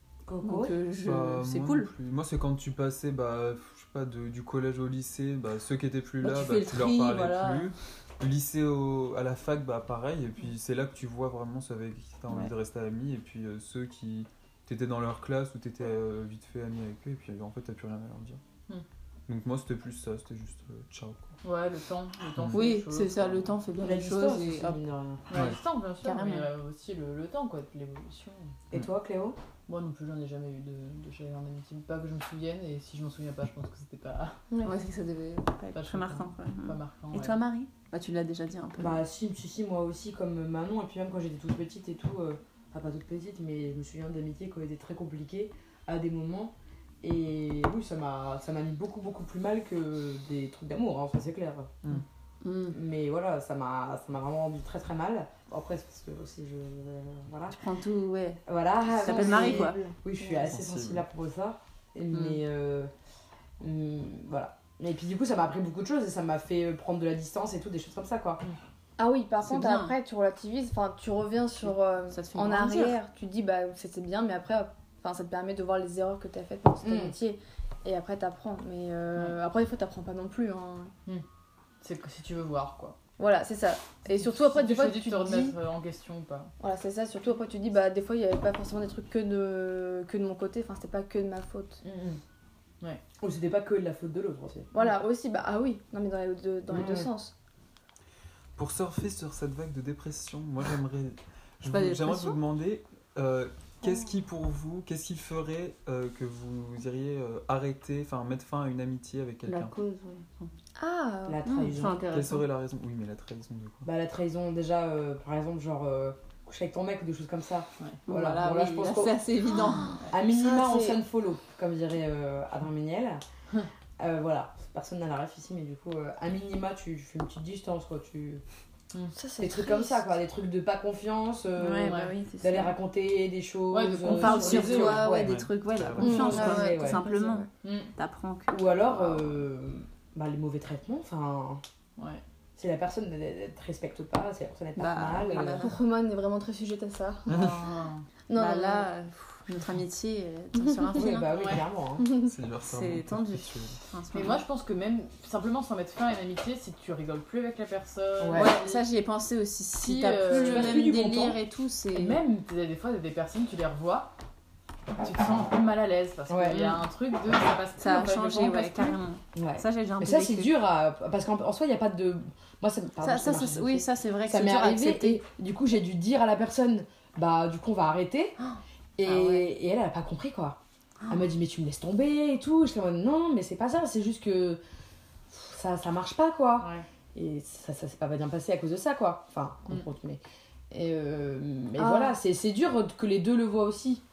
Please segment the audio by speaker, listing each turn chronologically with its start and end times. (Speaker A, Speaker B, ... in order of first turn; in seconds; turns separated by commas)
Speaker A: 0.3-0.8, Speaker B: 0.4-1.9, Speaker C: 0.9-18.4, Speaker B: 6.2-7.7, Speaker C: 19.3-21.4, Speaker D: 21.4-23.5, Speaker B: 22.5-24.8, Speaker A: 23.8-25.2, Speaker D: 25.3-28.5, Speaker C: 25.3-25.6, Speaker B: 26.0-26.5, Speaker A: 28.7-29.4, Speaker D: 29.7-34.4, Speaker E: 34.5-34.8, Speaker B: 34.6-39.0, Speaker D: 35.8-37.4, Speaker A: 38.8-51.9, Speaker B: 52.4-52.8, Speaker A: 52.7-57.6, Speaker B: 57.5-59.8, Speaker A: 58.5-62.9, Speaker E: 58.9-60.5, Speaker C: 60.5-61.0, Speaker B: 62.1-62.4, Speaker A: 63.6-68.4, Speaker E: 69.0-80.9, Speaker B: 69.4-69.9, Speaker B: 72.1-73.0, Speaker A: 76.8-77.2, Speaker D: 81.8-83.0, Speaker E: 83.2-85.6, Speaker D: 84.1-86.5, Speaker E: 86.6-91.8, Speaker D: 91.8-92.2, Speaker A: 93.2-94.7, Speaker E: 94.7-97.3, Speaker A: 96.7-97.1, Speaker C: 98.6-109.7, Speaker B: 101.7-102.4, Speaker B: 109.5-110.5, Speaker E: 110.8-111.5, Speaker A: 111.3-112.0, Speaker B: 111.5-112.5, Speaker C: 112.1-113.9, Speaker A: 113.8-119.2, Speaker B: 118.1-120.0, Speaker A: 120.1-123.2, Speaker E: 120.3-121.0, Speaker A: 124.0-128.4, Speaker E: 129.1-130.1, Speaker A: 129.4-135.4, Speaker B: 131.6-132.8, Speaker D: 131.8-132.2, Speaker D: 133.7-135.1, Speaker B: 134.0-139.4, Speaker C: 135.1-136.4, Speaker A: 135.9-137.0, Speaker E: 136.0-137.5, Speaker D: 137.6-137.9, Speaker A: 138.5-141.6, Speaker D: 142.0-142.2, Speaker A: 142.6-145.7, Speaker B: 144.8-145.8, Speaker E: 145.5-147.4, Speaker C: 147.3-147.6, Speaker D: 147.3-148.1, Speaker E: 148.3-148.9, Speaker B: 148.3-151.5, Speaker A: 150.9-152.1, Speaker D: 151.3-151.6, Speaker E: 152.0-152.3, Speaker C: 152.2-153.8, Speaker B: 152.6-154.4, Speaker D: 154.1-158.8, Speaker A: 158.2-158.5, Speaker B: 158.3-162.2, Speaker D: 159.7-160.9, Speaker A: 160.3-161.4, Speaker A: 161.9-162.4, Speaker D: 162.0-164.1, Speaker D: 165.0-169.0, Speaker A: 166.3-166.8, Speaker B: 166.5-166.8, Speaker B: 167.8-170.5, Speaker A: 169.3-178.4, Speaker B: 173.0-175.2, Speaker B: 178.4-179.5, Speaker A: 179.0-184.6, Speaker A: 185.3-194.0, Speaker D: 186.6-186.9, Speaker E: 191.8-192.2